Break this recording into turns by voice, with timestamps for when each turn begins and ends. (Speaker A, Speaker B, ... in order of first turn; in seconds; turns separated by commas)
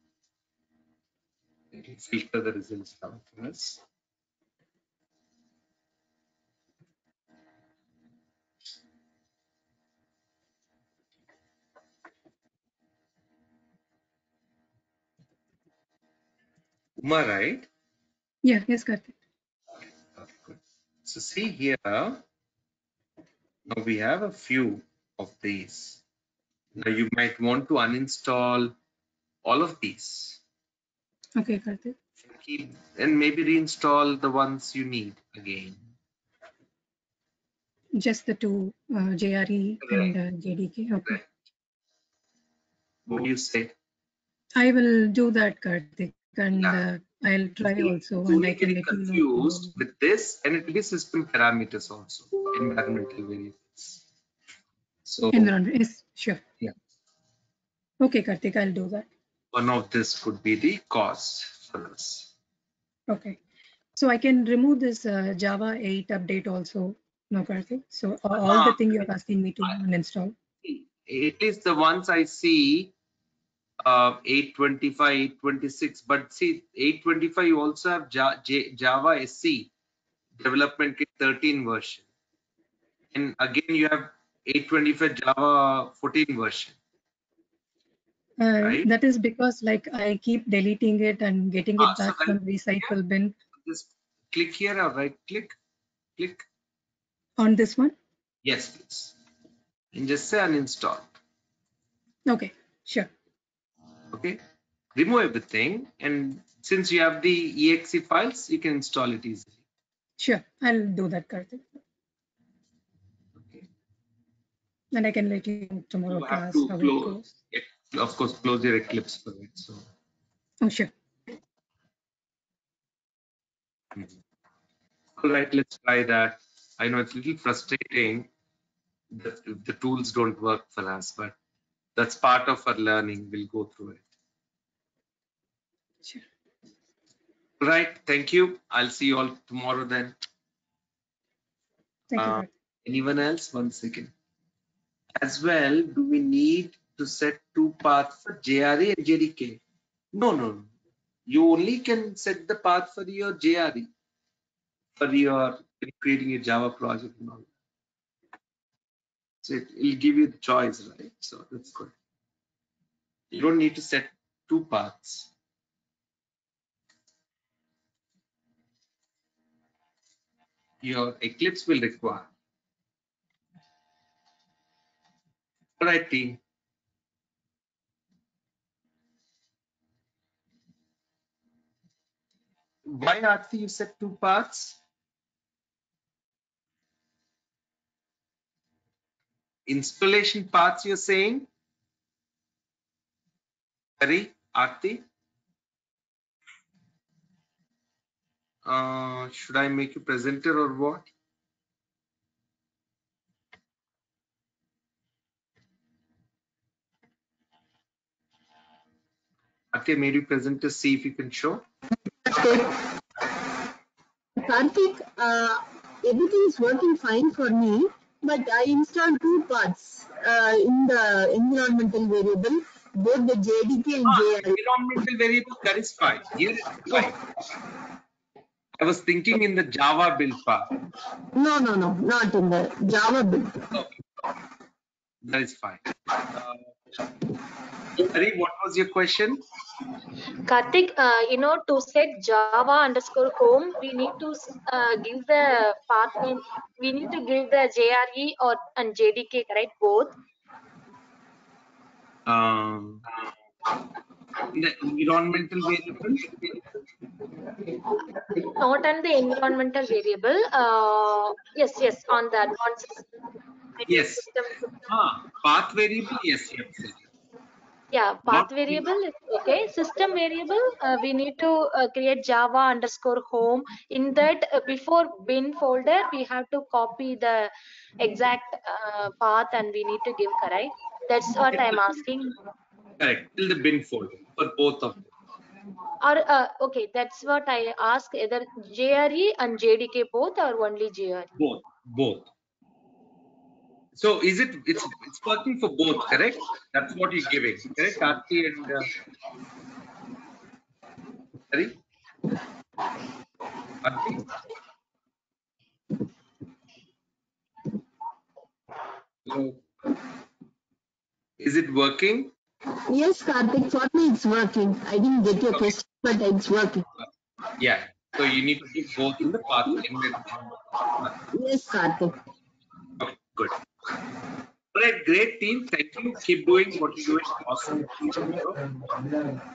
Speaker A: 1.7-3.8, Speaker A: 17.0-17.7, Speaker B: 18.4-19.1, Speaker A: 20.1-22.2, Speaker A: 23.7-26.0, Speaker A: 26.7-28.7, Speaker A: 29.4-30.4, Speaker B: 31.4-31.9, Speaker A: 32.2-35.8, Speaker B: 38.0-41.2, Speaker A: 39.8-40.1, Speaker A: 43.1-43.7, Speaker B: 44.5-49.7, Speaker A: 46.6-46.8, Speaker A: 47.6-54.0, Speaker A: 55.0-55.5, Speaker B: 55.3-56.4, Speaker B: 58.0-59.1, Speaker A: 59.5-62.3, Speaker B: 63.1-63.4, Speaker B: 64.0-70.3, Speaker A: 68.4-68.9, Speaker A: 70.6-72.9, Speaker A: 73.8-79.7, Speaker A: 80.4-82.0, Speaker A: 83.1-86.8, Speaker B: 88.4-93.3, Speaker A: 88.6-88.9, Speaker A: 91.8-92.4, Speaker A: 93.6-95.5, Speaker A: 96.2-96.5, Speaker B: 97.4-97.9, Speaker A: 98.4-99.1, Speaker A: 99.9-101.2, Speaker B: 102.2-103.1, Speaker A: 104.1-104.4, Speaker A: 104.9-109.6, Speaker B: 110.2-111.7, Speaker A: 113.4-113.7, Speaker B: 114.9-117.3, Speaker A: 116.1-119.8, Speaker B: 120.6-120.9, Speaker A: 125.2-128.3, Speaker A: 129.1-131.3, Speaker A: 131.9-134.0, Speaker A: 137.6-140.2, Speaker B: 142.1-142.5, Speaker A: 142.1-144.1, Speaker A: 145.2-149.6, Speaker A: 150.1-150.7, Speaker A: 151.3-153.9, Speaker A: 155.0-157.5, Speaker A: 159.4-161.9, Speaker A: 163.3-165.3, Speaker A: 170.8-172.3, Speaker A: 175.8-176.4, Speaker A: 182.8-184.8, Speaker A: 189.7-191.5, Speaker A: 194.0-195.0, Speaker A: 198.6-201.1, Speaker A: 209.7-211.6, Speaker C: 212.2-212.8, Speaker C: 214.4-224.6, Speaker A: 224.0-227.2, Speaker A: 228.8-230.7, Speaker C: 231.3-233.7, Speaker A: 235.2-236.6, Speaker A: 238.0-239.4, Speaker D: 240.4-250.1, Speaker A: 252.2-253.1, Speaker A: 254.5-256.6, Speaker D: 258.5-263.1, Speaker D: 263.8-264.7, Speaker A: 263.9-264.2, Speaker A: 264.9-267.0, Speaker D: 267.9-282.4, Speaker A: 268.3-268.7, Speaker A: 283.0-285.1, Speaker D: 286.0-291.3, Speaker A: 291.4-292.3, Speaker A: 293.9-298.9, Speaker A: 301.5-301.8, Speaker A: 303.8-304.3, Speaker A: 309.3-309.6, Speaker A: 311.4-312.3, Speaker C: 312.9-316.9, Speaker A: 317.6-320.5, Speaker C: 321.3-322.2, Speaker A: 323.0-323.6, Speaker A: 324.7-329.4